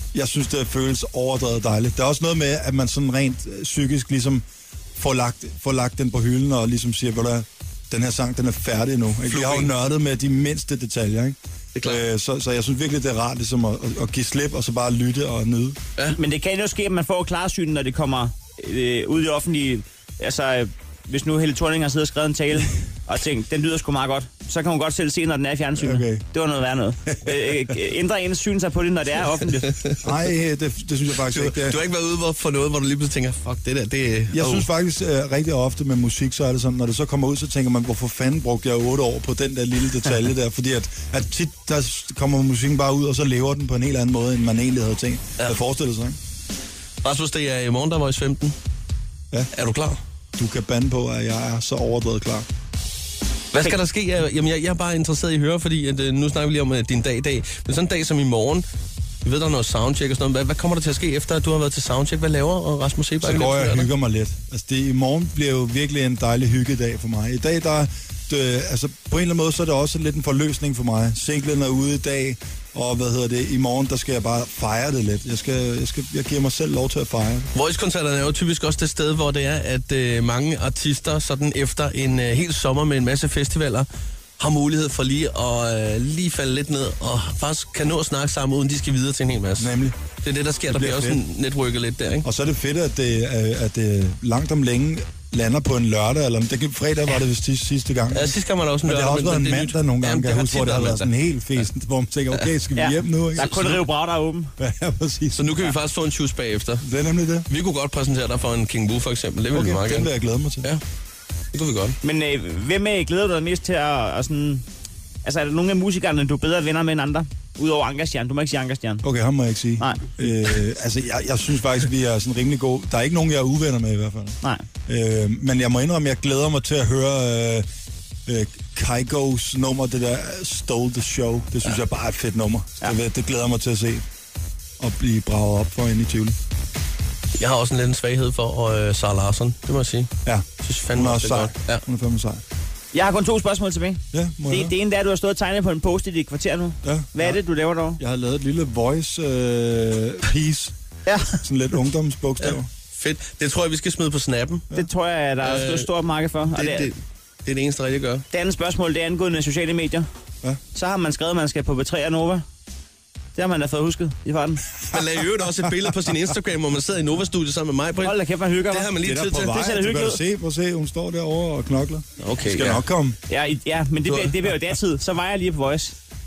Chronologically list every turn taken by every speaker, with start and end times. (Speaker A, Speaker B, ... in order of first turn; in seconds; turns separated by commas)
Speaker A: 0.1-4.4, Speaker A: 5.0-15.8, Speaker B: 9.2-9.7, Speaker B: 11.8-12.0, Speaker C: 16.1-29.8, Speaker A: 25.8-26.2, Speaker A: 30.0-31.8, Speaker B: 31.2-34.7, Speaker A: 34.3-46.2, Speaker B: 47.0-48.6, Speaker B: 49.5-50.0, Speaker A: 50.4-52.5, Speaker B: 53.5-58.6, Speaker B: 59.2-63.9, Speaker A: 63.2-77.5, Speaker B: 77.5-83.9, Speaker B: 84.4-92.3, Speaker A: 89.6-90.0, Speaker A: 90.7-91.2, Speaker A: 92.2-103.7, Speaker B: 98.1-101.1, Speaker C: 102.8-104.5, Speaker B: 103.4-103.8, Speaker A: 104.6-105.6, Speaker B: 105.3-106.8, Speaker A: 106.8-107.5, Speaker B: 107.5-110.1, Speaker A: 109.5-110.7, Speaker B: 111.5-112.0, Speaker C: 112.0-114.6, Speaker C: 115.2-119.0, Speaker A: 119.0-127.7, Speaker C: 119.8-120.1, Speaker A: 128.3-134.0, Speaker A: 134.8-136.3, Speaker B: 137.3-140.1, Speaker A: 140.2-142.4, Speaker B: 140.6-141.8, Speaker C: 142.9-148.0, Speaker A: 144.1-144.7, Speaker A: 146.8-147.4, Speaker A: 148.0-150.7, Speaker C: 151.1-151.4, Speaker A: 151.4-152.7, Speaker B: 152.4-154.8, Speaker C: 154.7-156.9, Speaker B: 155.4-155.9, Speaker B: 156.5-158.2, Speaker C: 158.3-160.1, Speaker C: 160.7-162.4, Speaker C: 163.4-164.7, Speaker B: 164.9-168.2, Speaker C: 168.0-169.0, Speaker B: 168.7-169.6, Speaker A: 169.0-173.2, Speaker C: 169.5-170.2, Speaker B: 172.2-172.8, Speaker C: 173.3-176.0, Speaker B: 174.0-174.6